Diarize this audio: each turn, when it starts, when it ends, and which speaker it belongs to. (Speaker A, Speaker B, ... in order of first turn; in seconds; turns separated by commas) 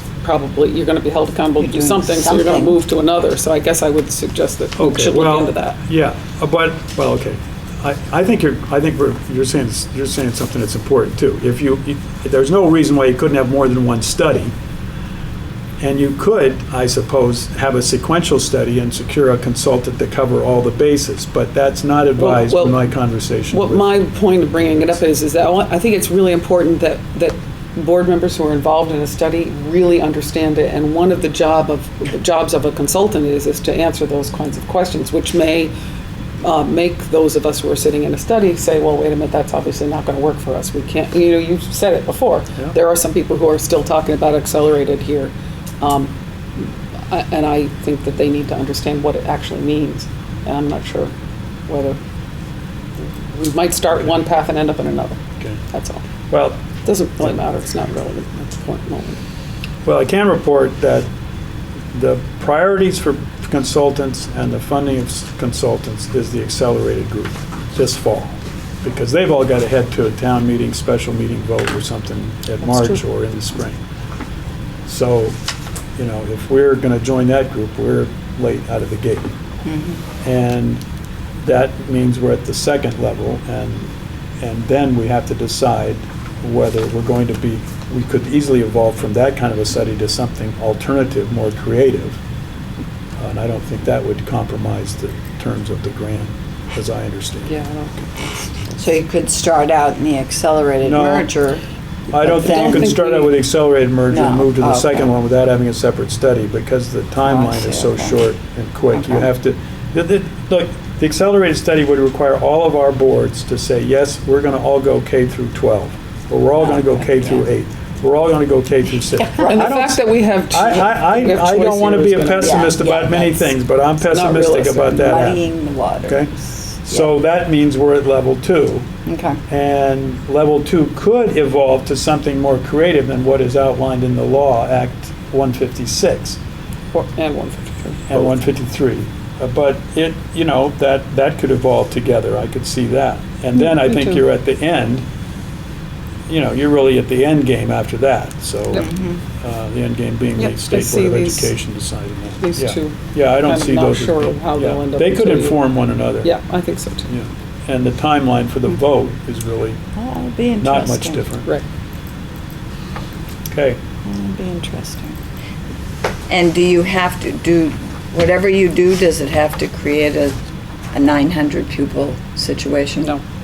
Speaker A: 0.2-5.8, Speaker B: 1.6-2.8, Speaker C: 4.8-14.5, Speaker C: 15.8-23.9, Speaker A: 22.2-22.8, Speaker A: 23.5-35.7, Speaker C: 24.7-24.9, Speaker A: 36.4-51.1, Speaker A: 51.7-52.0, Speaker A: 53.0-55.2, Speaker A: 55.7-56.0, Speaker C: 56.3-56.6, Speaker A: 56.8-59.2, Speaker C: 59.8-61.1, Speaker C: 61.9-73.8, Speaker A: 72.6-73.0, Speaker C: 74.8-75.4, Speaker C: 76.0-79.3, Speaker B: 79.7-80.0, Speaker C: 80.2-80.8, Speaker C: 81.4-92.2, Speaker C: 93.2-97.5, Speaker A: 97.5-98.8, Speaker B: 98.8-101.6, Speaker C: 100.8-101.3, Speaker C: 102.1-125.4, Speaker B: 102.2-103.0, Speaker A: 102.4-103.3, Speaker B: 104.1-105.1, Speaker B: 107.2-108.2, Speaker B: 116.8-117.4, Speaker B: 119.1-119.6, Speaker A: 119.4-122.7, Speaker B: 122.4-123.5, Speaker A: 124.0-125.2, Speaker B: 124.9-127.1, Speaker C: 126.1-128.9, Speaker B: 129.1-129.4, Speaker C: 129.5-136.4, Speaker A: 136.9-138.1, Speaker C: 138.1-145.0, Speaker A: 143.6-144.2, Speaker C: 146.3-156.3, Speaker B: 148.8-149.2, Speaker A: 150.4-151.5, Speaker A: 152.4-155.6, Speaker A: 156.2-157.1, Speaker C: 157.1-159.8, Speaker B: 159.9-161.2, Speaker C: 160.6-161.5, Speaker C: 163.5-163.8, Speaker B: 164.0-165.2, Speaker B: 166.3-170.3, Speaker B: 170.9-173.1